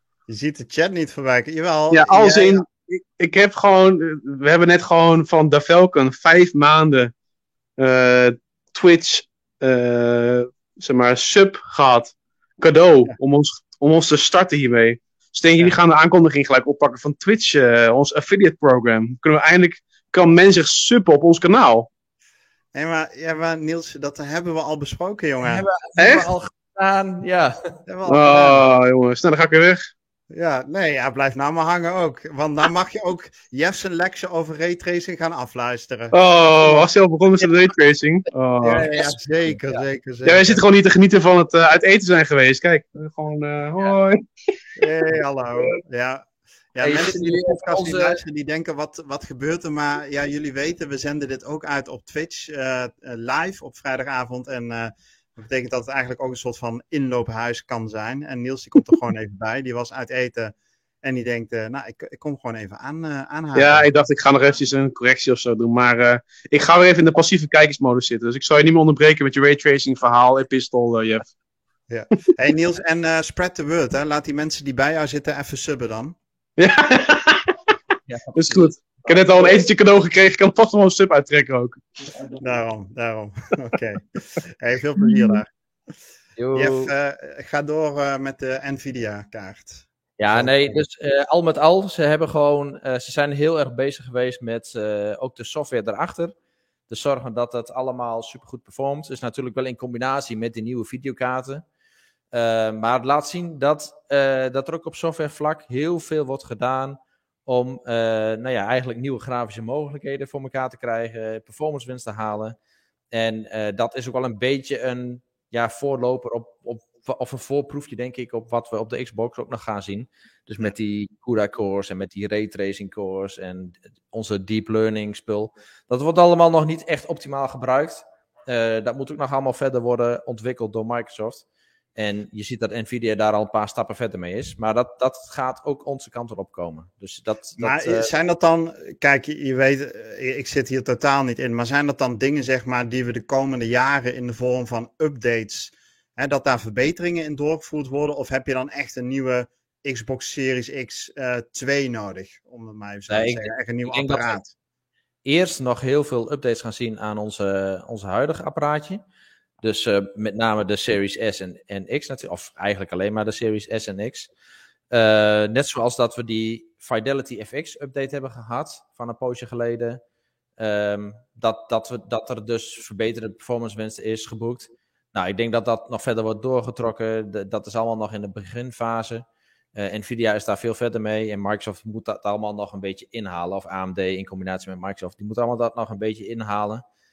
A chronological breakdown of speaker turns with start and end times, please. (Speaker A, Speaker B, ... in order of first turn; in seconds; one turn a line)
Speaker A: 0.3-2.6
Speaker B: 1.9-7.1
Speaker B: 7.8-21.9
Speaker A: 22.8-25.7
Speaker C: 25.4-27.7
Speaker B: 26.0-26.3
Speaker A: 27.9-28.6
Speaker B: 28.1-29.9
Speaker A: 30.3-36.9
Speaker B: 36.1-38.9
Speaker A: 38.6-40.6
Speaker B: 40.2-44.2
Speaker A: 44.8-63.9
Speaker C: 46.8-48.2
Speaker B: 63.5-71.2
Speaker A: 71.9-76.2
Speaker B: 76.6-77.5
Speaker C: 78.1-78.7
Speaker B: 78.3-81.8
Speaker A: 82.3-85.5
Speaker C: 86.4-86.9
Speaker A: 86.5-90.7
Speaker C: 90.2-96.3
Speaker C: 96.9-101.6
Speaker C: 102.3-112.6
Speaker C: 113.1-131.4
Speaker C: 132.0-138.1
Speaker A: 137.6-154.5
Speaker C: 153.1-154.4
Speaker C: 155.2-159.0
Speaker C: 159.6-164.3
Speaker C: 164.9-170.0
Speaker C: 170.6-186.8